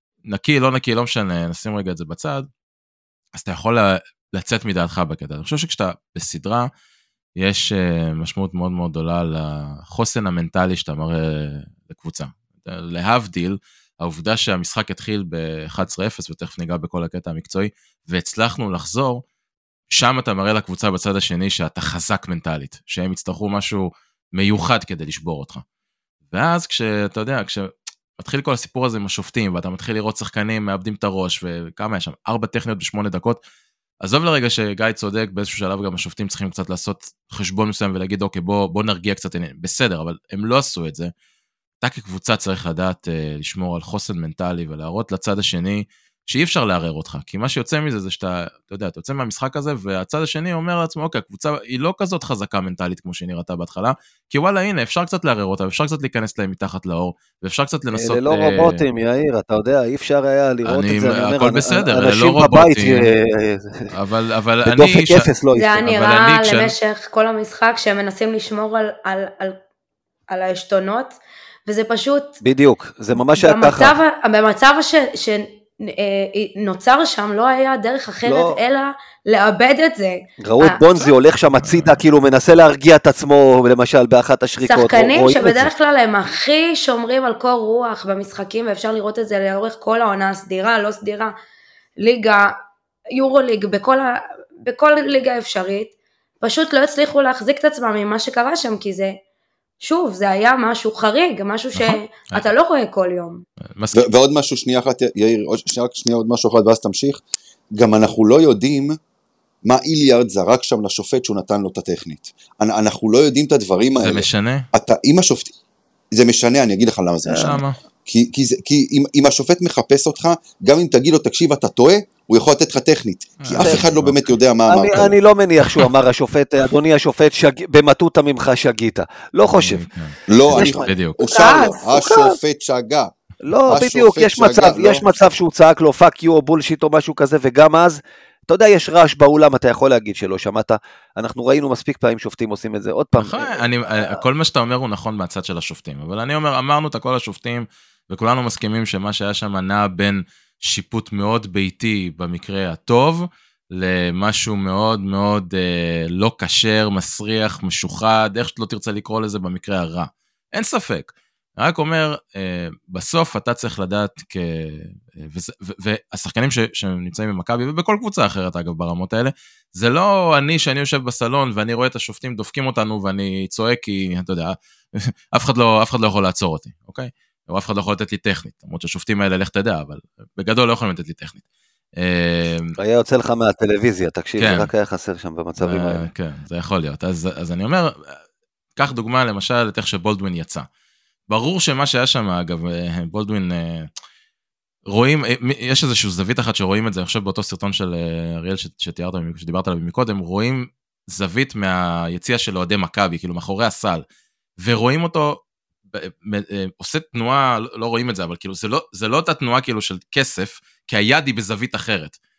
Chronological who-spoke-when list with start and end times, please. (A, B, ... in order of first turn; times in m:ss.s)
0:00.3-0:02.5 A
0:03.3-0:06.7 A
0:07.4-0:19.2 A
0:19.9-0:25.6 A
0:26.3-0:33.4 A
0:34.0-0:41.1 A
0:41.8-0:58.8 A
0:57.9-1:03.9 B
1:00.7-1:03.1 A
1:03.9-1:05.3 A
1:04.6-1:05.9 B
1:05.6-1:09.6 C
1:05.8-1:06.7 A
1:10.3-1:12.4 C
1:12.4-1:14.0 B
1:13.2-1:21.1 C
1:18.2-1:18.6 B
1:20.4-1:25.7 B
1:21.6-1:22.0 A
1:24.7-1:31.3 C
1:32.0-1:32.5 C
1:33.2-1:39.2 C
1:39.8-1:43.4 C
1:41.8-1:42.4 A
1:43.8-1:44.0 A
1:43.9-1:47.2 D
1:47.7-1:49.0 D
1:49.6-1:55.5 D
1:54.0-1:54.7 A
1:56.1-2:05.2 D
1:57.3-1:57.8 A
2:03.4-2:04.3 A
2:03.6-2:03.8 B
2:04.7-2:09.9 B
2:09.5-2:11.2 A
2:10.3-2:13.1 D
2:10.5-2:12.4 B
2:11.3-2:11.8 C
2:13.4-2:24.2 B
2:13.7-2:15.2 D
2:23.2-3:01.4 A
3:02.0-3:02.7 A
3:02.8-3:06.1 B
3:04.4-3:04.7 A
3:05.6-3:08.2 A
3:08.8-3:10.7 A
3:11.3-3:13.9 A
3:14.9-3:24.0 A
3:24.6-3:32.2 A